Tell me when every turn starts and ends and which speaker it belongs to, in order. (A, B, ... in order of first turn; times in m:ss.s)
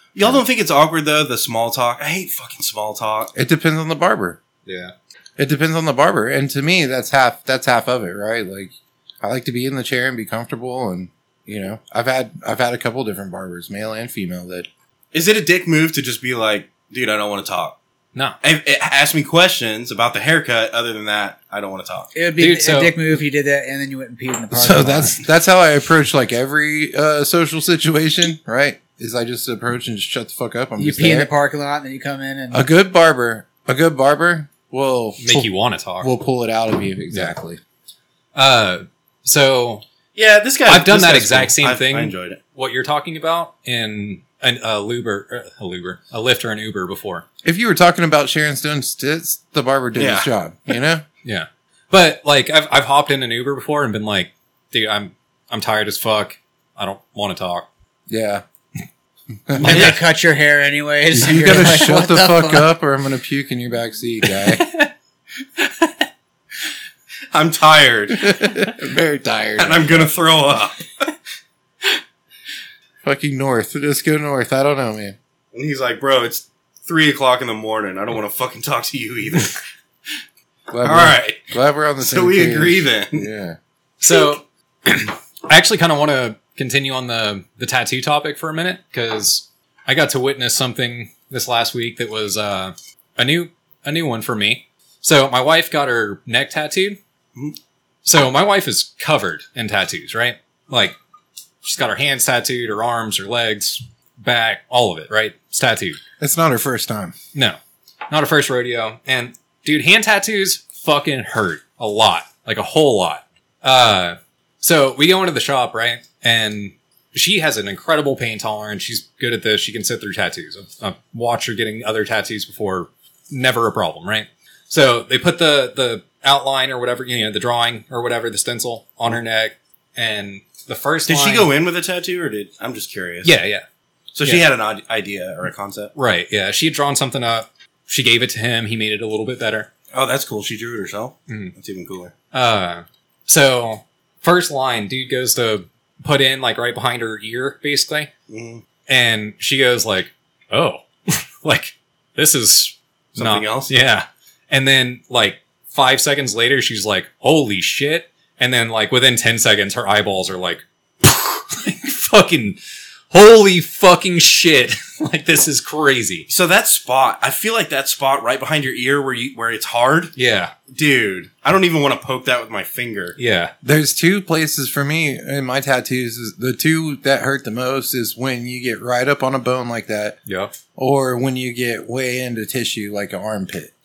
0:00.1-0:03.3 A
0:03.3-0:04.4 B
0:04.6-0:04.9 C
0:05.4-0:14.7 B
0:15.1-0:17.8 A
0:18.4-0:22.1 A
0:22.1-0:25.2 D
0:22.4-0:22.9 C
0:24.5-0:31.3 B
0:30.8-0:32.6 D
0:32.5-0:35.5 B
0:35.2-0:36.1 C
0:36.0-0:37.6 B
0:38.3-0:39.8 C
0:40.1-0:42.4 A
0:40.6-0:47.2 C
0:47.4-0:51.0 B
0:50.0-0:50.3 A
0:51.2-0:57.7 C
0:58.1-0:58.4 B
0:59.5-1:00.0 B
0:59.6-1:02.7 D
1:01.1-1:04.6 B
1:04.4-1:04.9 C
1:05.6-1:06.0 C
1:07.3-1:08.7 A
1:08.2-1:10.1 B
1:09.6-1:11.1 A
1:13.0-1:15.2 B
1:15.5-1:19.6 A
1:20.7-1:23.6 B
1:20.8-1:23.3 A
1:24.0-1:37.0 C
1:38.0-1:40.9 C
1:41.6-1:46.0 C
1:46.2-1:47.1 B
1:48.1-2:11.5 C
2:11.1-2:13.3 A
2:13.2-2:13.6 C
2:14.1-2:15.9 A
2:16.0-2:19.7 C
2:19.9-2:22.1 A
2:21.3-2:21.5 C
2:22.3-2:28.1 C
2:28.3-2:28.6 A
2:28.9-2:42.6 C
2:33.2-2:33.7 A
2:43.1-2:46.3 C
2:46.3-2:50.1 A
2:50.2-2:50.5 C
2:50.7-2:53.2 A
2:53.2-2:53.5 C
2:53.6-3:00.2 B
3:00.2-3:00.5 C
3:00.8-3:03.7 B